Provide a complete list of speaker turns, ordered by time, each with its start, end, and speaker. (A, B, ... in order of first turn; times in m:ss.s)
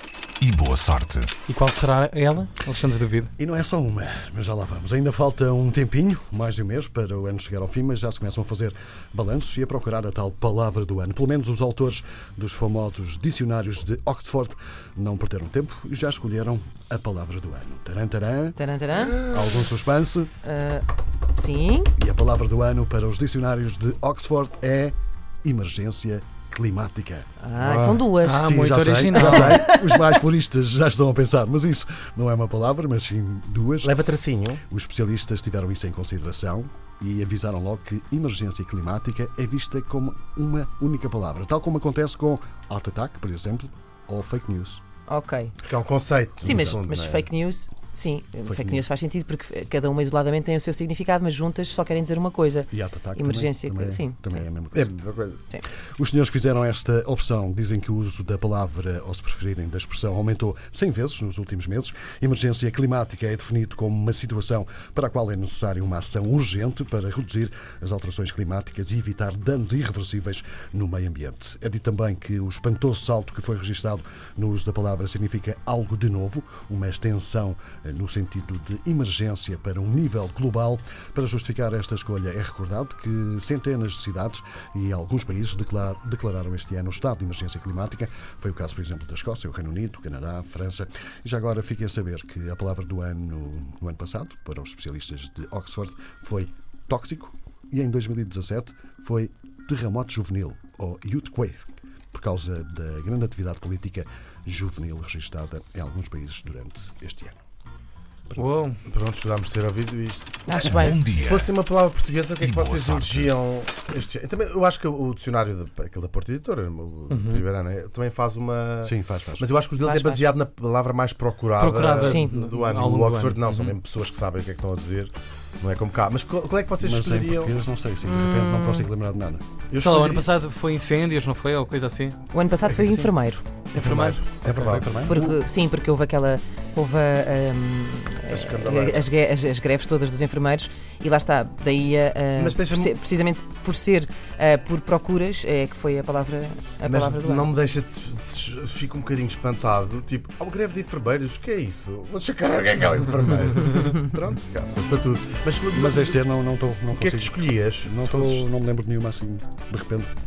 0:00.4-0:01.3 A
0:01.5-0:03.3 B
0:03.4-0:18.6 C
0:18.6-0:19.3 D
0:19.1-0:20.3 C
0:20.4-0:21.9 D
0:22.0-0:34.0 C
0:27.4-0:28.5 D
0:28.2-0:29.6 B
0:29.1-0:29.8 D
0:33.8-0:34.6 E
0:34.7-0:44.8 C
0:45.1-0:45.6 D
0:45.6-0:47.3 E
0:46.4-0:54.4 D
0:46.4-0:46.8 C
0:48.4-0:48.8 C
0:52.7-0:54.9 C
0:54.7-0:55.4 E
0:55.9-1:47.4 C
1:48.3-1:48.8 B
1:48.9-2:07.6 E
1:50.5-1:51.0 D
1:50.5-1:51.6 A
1:52.4-1:53.4 A
1:57.1-1:57.4 B
1:58.8-1:59.4 C
1:59.8-2:00.3 D
2:01.6-2:03.7 B
2:01.9-2:02.3 D
2:06.8-2:09.4 C
2:08.1-2:08.9 D
2:09.7-2:10.3 E
2:09.8-2:12.2 B
2:12.3-2:13.5 D
2:12.7-2:13.1 E
2:13.7-2:15.4 E
2:13.8-2:14.9 B
2:14.4-2:15.2 C
2:15.0-2:27.5 D
2:18.3-2:19.1 E
2:22.4-2:23.0 E
2:26.8-2:36.2 E
2:35.7-2:40.2 C
2:36.9-2:38.5 E